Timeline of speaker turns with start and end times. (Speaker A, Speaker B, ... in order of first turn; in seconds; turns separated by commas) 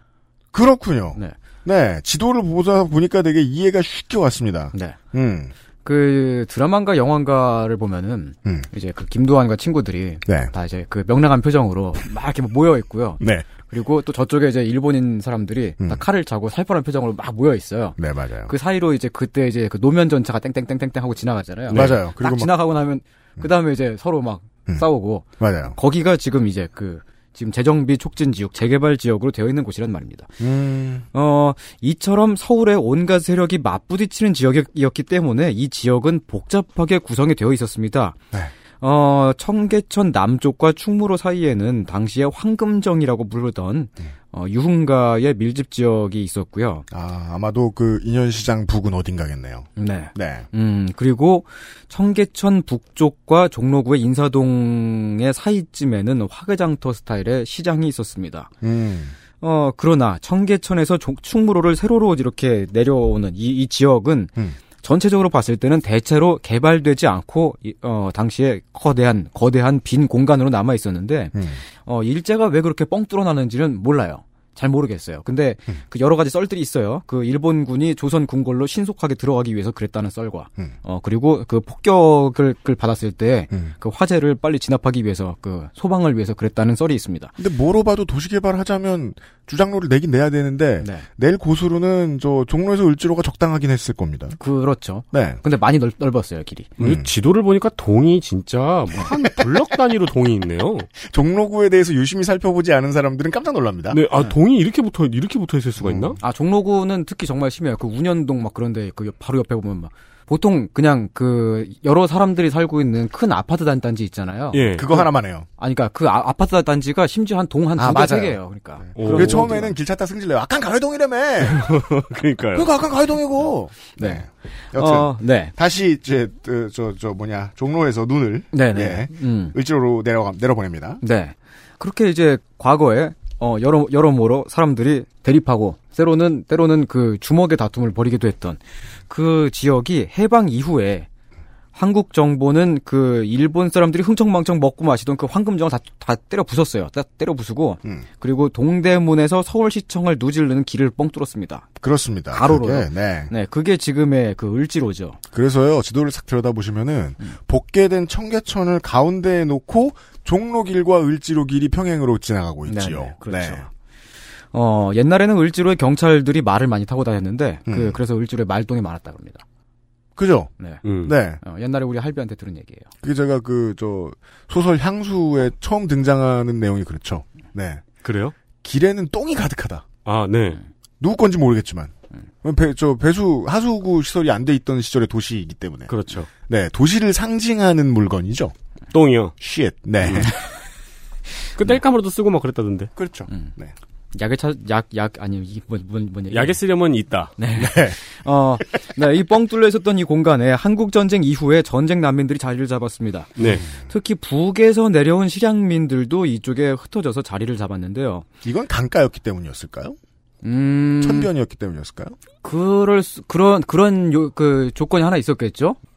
Speaker A: 0.5-5.5, Speaker B: 4.7-5.0, Speaker B: 5.8-18.0, Speaker A: 10.3-10.5, Speaker A: 13.2-13.5, Speaker A: 18.0-18.5, Speaker B: 18.5-30.3, Speaker A: 21.7-22.5, Speaker A: 25.4-25.8, Speaker A: 30.4-31.1, Speaker B: 31.1-38.2, Speaker B: 38.8-46.9, Speaker A: 46.9-50.5, Speaker B: 49.8-58.5, Speaker A: 58.6-59.2, Speaker B: 59.4-87.3, Speaker A: 87.4-94.4, Speaker B: 90.8-91.1, Speaker B: 94.4-96.8, Speaker A: 95.1-95.4, Speaker C: 96.8-100.9, Speaker A: 96.8-97.1, Speaker A: 101.0-104.0, Speaker C: 103.9-106.2, Speaker A: 105.8-106.2, Speaker B: 106.2-119.8, Speaker C: 114.5-114.9, Speaker A: 114.8-115.5, Speaker A: 117.8-121.7, Speaker C: 119.0-119.6, Speaker C: 121.4-122.7, Speaker A: 122.5-131.0, Speaker B: 124.0-125.5, Speaker B: 128.5-129.6, Speaker B: 131.0-141.1, Speaker B: 141.7-151.8, Speaker A: 151.8-153.3, Speaker B: 152.3-155.2, Speaker A: 155.3-163.7, Speaker B: 162.7-163.7, Speaker B: 164.5-169.4, Speaker A: 167.7-168.0, Speaker A: 170.2-170.5, Speaker C: 170.8-171.2, Speaker A: 171.0-171.4, Speaker B: 171.4-172.9, Speaker A: 173.0-177.8, Speaker C: 178.0-178.3, Speaker A: 178.6-179.9, Speaker C: 180.1-180.6, Speaker A: 181.0-185.9, Speaker C: 185.9-186.3, Speaker A: 186.4-188.6, Speaker C: 188.9-189.3, Speaker A: 189.4-190.3, Speaker C: 190.0-190.3, Speaker C: 191.6-192.9, Speaker A: 193.0-193.7, Speaker B: 194.1-196.6, Speaker C: 196.3-197.3, Speaker B: 197.4-208.3, Speaker A: 197.6-198.0, Speaker C: 203.4-203.7, Speaker A: 203.5-203.8, Speaker A: 208.4-210.0, Speaker B: 210.4-211.3, Speaker A: 211.0-212.2, Speaker B: 212.4-215.8